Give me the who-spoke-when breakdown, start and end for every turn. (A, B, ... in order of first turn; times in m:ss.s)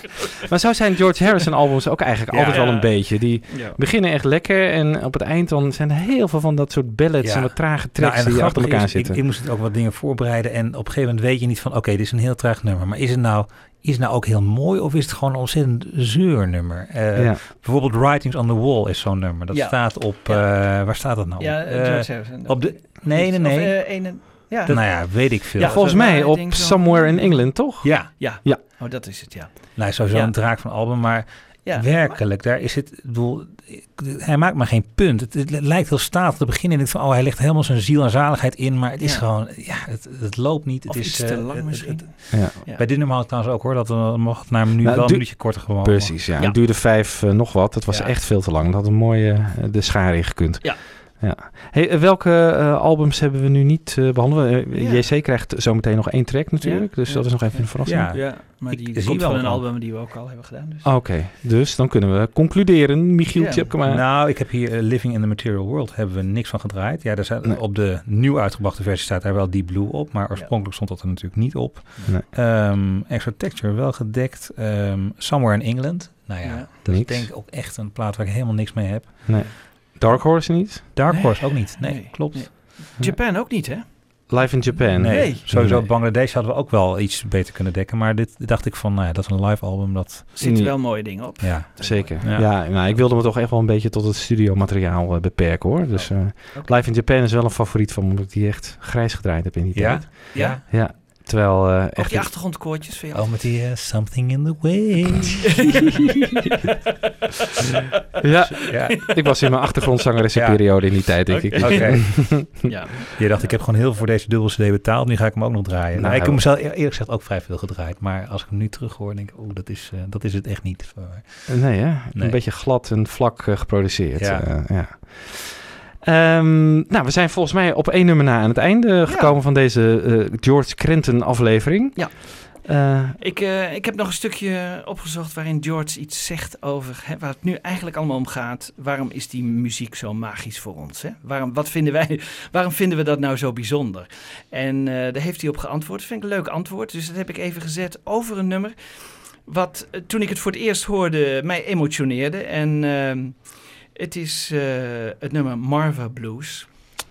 0:00.5-0:09.2 A
0:02.3-0:02.9 B
0:02.5-0:03.8 C
0:07.2-0:25.8 B
0:17.2-0:17.4 A
0:19.5-0:20.5 C
0:21.4-0:27.5 C
0:25.6-0:28.6 A
0:27.8-0:28.1 B
0:28.2-0:30.3 C
0:29.8-0:46.3 B
0:31.7-0:32.2 C
0:40.9-0:42.8 C
0:44.8-0:58.2 A
0:54.7-0:55.0 C
0:56.6-1:00.9 C
0:57.8-0:59.7 B
1:00.8-1:04.0 A
1:03.4-1:03.7 C
1:03.8-1:19.6 B
1:16.4-1:16.7 C
1:16.9-1:17.3 A
1:19.3-1:20.9 A
1:21.0-1:23.1 B
1:21.1-1:24.6 C
1:24.3-1:25.9 A
1:25.0-1:30.7 B
1:25.1-1:25.5 C
1:30.4-1:33.0 C
1:30.4-1:42.3 A
1:31.4-1:32.5 B
1:35.9-1:36.8 C
1:39.8-1:40.6 B
1:40.3-1:40.6 C
1:42.0-1:43.2 C
1:43.1-1:46.0 B
1:45.5-1:46.5 C
1:48.2-1:52.7 A
1:48.6-1:49.4 B
1:49.0-1:49.5 C
1:50.4-2:02.4 B
1:51.3-1:53.6 C
1:56.0-1:56.4 A
2:01.5-2:13.2 A
2:04.2-2:04.5 B
2:09.1-2:09.3 C
2:12.0-2:12.7 C
2:13.2-2:36.8 C